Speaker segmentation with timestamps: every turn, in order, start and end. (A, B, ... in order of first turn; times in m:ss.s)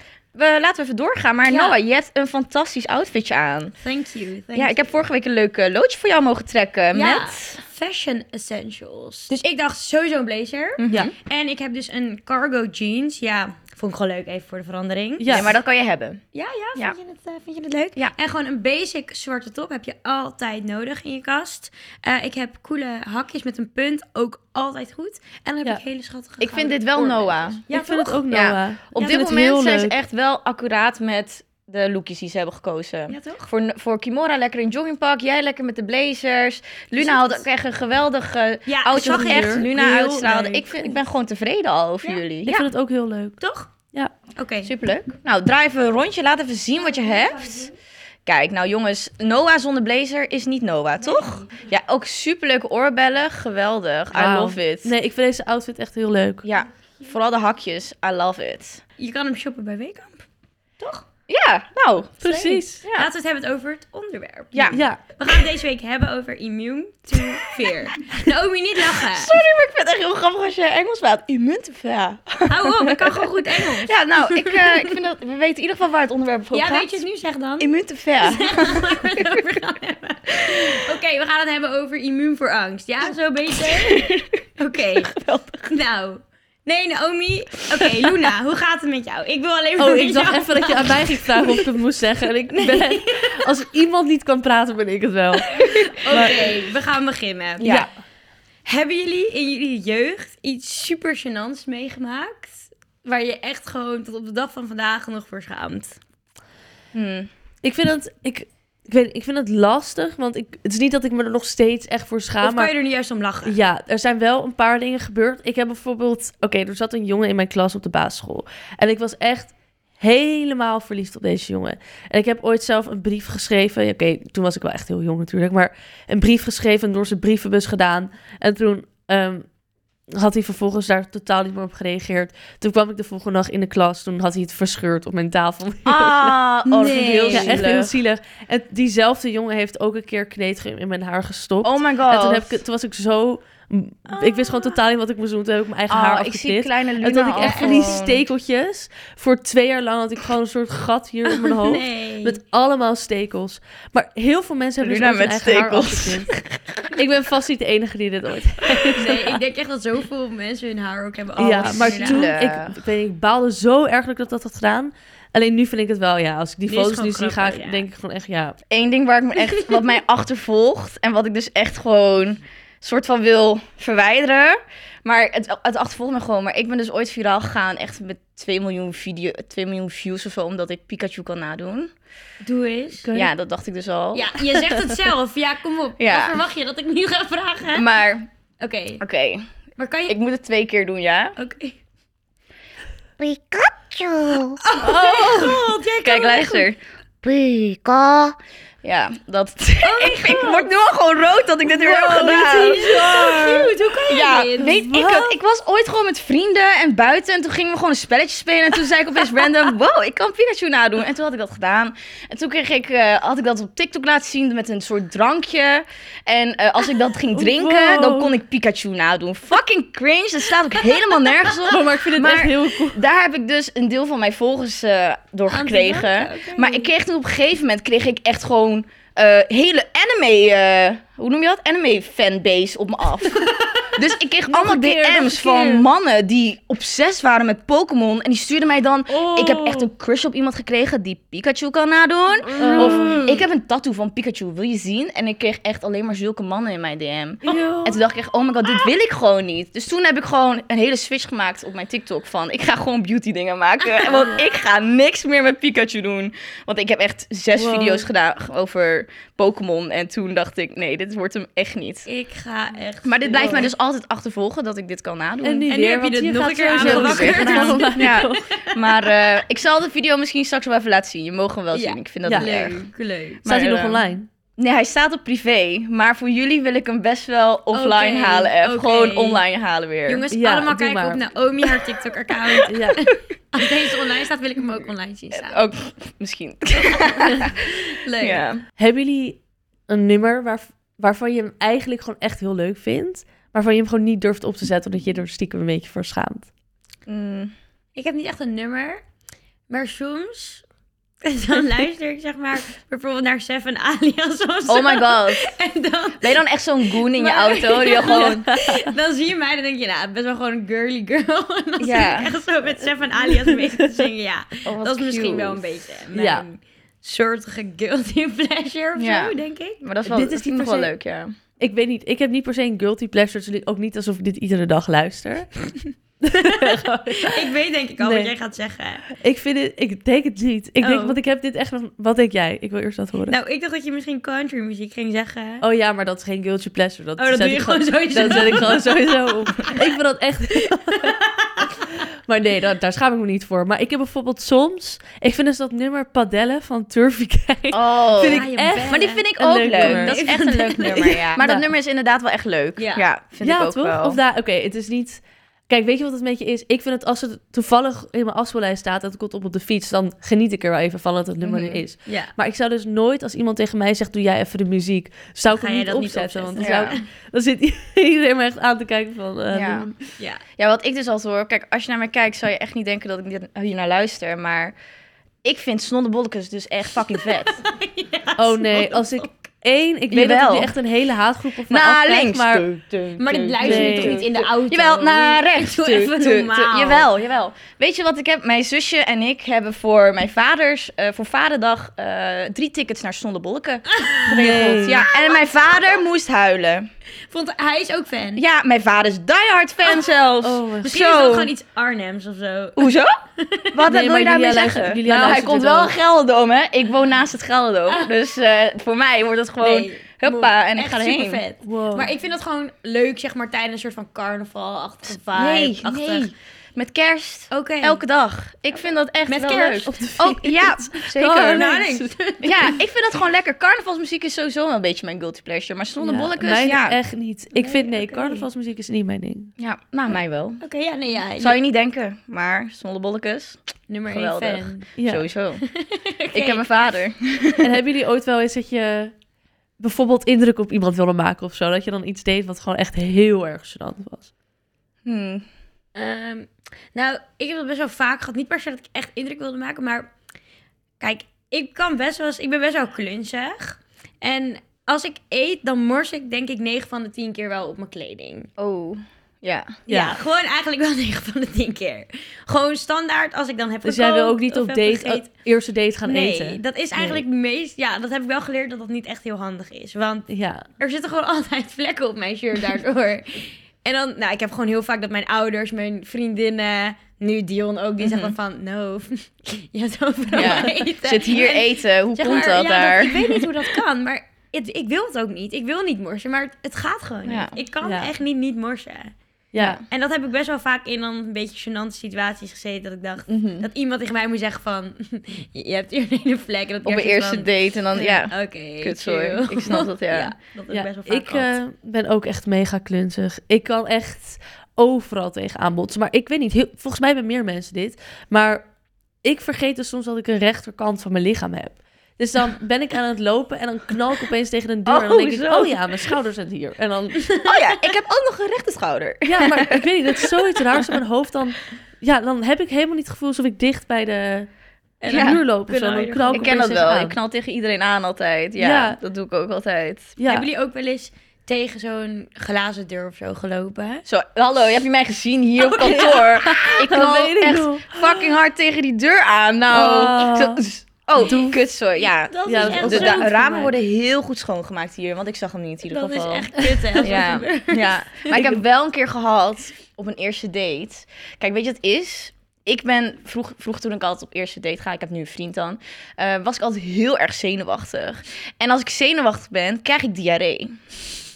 0:00.3-0:03.7 A
0:01.5-0:01.8 B
0:03.8-0:05.0 B
0:04.5-0:07.6 A
0:06.9-0:15.5 B
0:10.8-0:11.1 A
0:15.2-0:15.5 C
0:15.3-0:16.2 A
0:16.3-0:28.2 B
0:26.4-0:27.6 A
0:27.7-0:30.0 C
0:28.2-0:42.7 A
0:33.1-0:33.5 B
0:36.9-0:37.4 B
0:38.7-0:39.7 B
0:38.9-0:40.7 C
0:42.4-0:43.4 C
0:43.4-0:43.7 B
0:44.4-0:44.7 B
0:44.6-0:47.7 A
0:46.7-0:47.7 B
0:48.2-0:54.9 A
0:51.0-0:51.6 B
0:54.1-0:56.4 C
0:56.4-0:58.8 A
0:59.0-1:00.2 B
1:00.8-1:01.0 B
1:01.3-1:03.1 A
1:02.2-1:02.8 C
1:02.9-1:09.4 B
1:04.5-1:04.8 A
1:04.7-1:05.0 C
1:07.1-1:07.7 A
1:08.8-1:17.0 A
1:12.5-1:15.0 B
1:16.5-1:31.7 B
1:17.6-1:19.6 A
1:20.4-1:20.7 A
1:23.6-1:24.3 A
1:24.9-1:25.8 A
1:29.8-1:36.4 C
1:32.5-1:33.5 B
1:35.4-1:37.7 B
1:37.6-1:37.9 A
1:37.6-1:37.9 C
1:38.6-1:46.0 B
1:46.9-1:47.3 A
1:47.6-1:52.7 C
1:52.4-1:53.5 B
1:53.4-2:09.4 C
2:10.1-2:16.4 C
2:15.8-2:18.0 A
2:16.6-2:17.6 B
2:17.3-2:36.3 C
2:21.6-2:22.6 A
2:25.9-2:28.2 A
2:27.4-2:28.0 B
2:31.3-2:32.4 B
2:34.8-2:36.6 A
2:36.9-2:39.4 C
2:38.9-2:42.3 B
2:41.4-2:48.6 C
2:41.4-2:42.8 A
2:46.7-2:47.8 B
2:48.7-3:01.9 A
3:02.4-3:03.0 B
3:03.0-3:03.3 C
3:03.1-3:04.4 A
3:04.1-3:07.9 B
3:06.0-3:06.4 A
3:07.7-3:08.3 A
3:08.6-3:09.0 B
3:09.0-3:09.4 A
3:09.8-3:10.2 B
3:10.1-3:11.3 A
3:11.4-3:11.8 B
3:13.2-4:22.1 A
3:14.6-3:16.7 B
3:19.8-3:20.7 B
3:21.6-3:25.1 B
3:22.5-3:23.2 C
3:24.6-3:25.3 C
3:37.3-3:38.3 C
3:41.7-3:43.0 C
3:45.5-3:46.9 B
3:53.4-3:53.9 B
3:54.5-3:55.8 C
3:59.1-3:59.9 C
4:02.5-4:03.2 B
4:02.6-4:03.3 C
4:07.4-4:08.0 C
4:17.5-4:18.0 C
4:22.1-4:23.7 B
4:23.0-4:25.7 A
4:25.4-4:28.4 C
4:25.7-4:29.3 B
4:26.7-4:32.8 A
4:31.7-4:33.4 B
4:33.4-4:34.0 A
4:33.4-4:34.3 C
4:34.6-4:40.2 A
4:37.7-4:39.4 B
4:40.1-4:45.6 B
4:40.3-4:41.2 C
4:42.6-4:43.0 C
4:45.3-4:48.6 A
4:46.8-4:48.5 B
4:48.8-4:56.5 C
4:57.1-4:57.5 A
4:57.9-4:59.0 B
4:59.7-5:00.6 B
5:01.2-5:19.8 B
5:04.7-5:05.5 A
5:06.2-5:08.5 A
5:08.1-5:08.9 C
5:11.8-5:12.4 A
5:13.2-5:14.1 C
5:14.6-5:15.7 A
5:16.1-5:16.4 C
5:19.0-5:21.3 A
5:20.0-5:20.9 C
5:21.6-5:25.6 C
5:26.2-5:27.4 C
5:26.4-5:29.0 B
5:28.0-5:28.3 C
5:29.2-5:33.3 C
5:30.8-5:31.2 B
5:33.3-5:35.6 B
5:35.6-5:41.2 C
5:37.2-5:38.9 B
5:40.9-5:41.7 B
5:41.9-5:50.2 C
5:47.7-5:54.2 A
5:48.2-5:51.3 B
5:51.4-5:51.6 C
5:52.8-5:53.0 B
5:53.4-6:10.1 C
6:01.4-6:01.8 A
6:02.0-6:02.3 B
6:05.5-6:07.0 B
6:06.6-6:07.0 A
6:09.5-6:09.9 A
6:10.6-6:14.7 A
6:15.4-6:17.6 A
6:17.2-6:19.3 B
6:18.4-6:22.7 C
6:20.1-6:20.7 A
6:21.7-6:36.9 A
6:23.2-6:27.1 B
6:23.6-6:24.2 C
6:33.9-6:34.3 B
6:34.3-6:35.0 C
6:37.3-6:38.4 B
6:38.4-6:41.5 A
6:40.4-6:40.9 C
6:40.9-6:43.9 B
6:42.8-6:43.2 A
6:43.7-6:51.4 A
6:43.8-6:45.9 C
6:47.9-6:48.2 B
6:49.6-6:56.3 B
6:51.6-6:52.1 C
6:55.3-7:01.6 A
6:57.5-6:58.0 B
6:59.3-7:00.0 B
6:59.8-7:02.1 C
7:01.2-7:02.8 B
7:02.4-7:07.0 A
7:06.0-7:09.5 C
7:07.5-7:08.5 B
7:09.6-7:10.6 A
7:10.6-7:11.6 B
7:11.4-7:15.6 A
7:13.9-7:14.9 B
7:15.0-7:15.2 C
7:15.6-7:16.6 B
7:16.3-7:17.7 A
7:17.6-7:19.1 C
7:19.8-7:24.3 C
7:25.0-7:25.4 A
7:25.9-7:30.1 B
7:31.0-7:38.5 B
7:38.6-7:39.8 A
7:39.9-7:40.2 C
7:39.9-7:45.3 B
7:43.8-7:47.2 C
7:46.0-8:09.1 B
7:50.3-7:50.7 C
7:58.0-7:58.4 A
8:00.3-8:03.6 A
8:07.3-8:07.6 A
8:07.8-8:08.1 C
8:09.5-8:09.8 C
8:09.6-8:09.8 A
8:09.9-8:21.5 B
8:13.3-8:13.7 A
8:16.8-8:20.3 A
8:20.7-8:28.7 C
8:29.2-8:37.3 C
8:34.8-8:35.9 A
8:37.2-8:37.8 B
8:37.4-8:41.0 A
8:39.2-8:44.5 C
8:45.0-8:46.6 B
8:45.1-8:47.2 C
8:45.1-8:45.4 A
8:46.3-8:50.1 A
8:48.6-8:49.0 C
8:50.2-8:50.5 C
8:50.2-8:54.0 B
8:54.1-9:20.8 A
8:55.6-8:56.8 B
8:56.7-8:58.0 C
8:59.7-9:00.6 C
9:01.2-9:01.6 C
9:02.2-9:03.7 B
9:02.4-9:03.4 C
9:05.9-9:08.4 B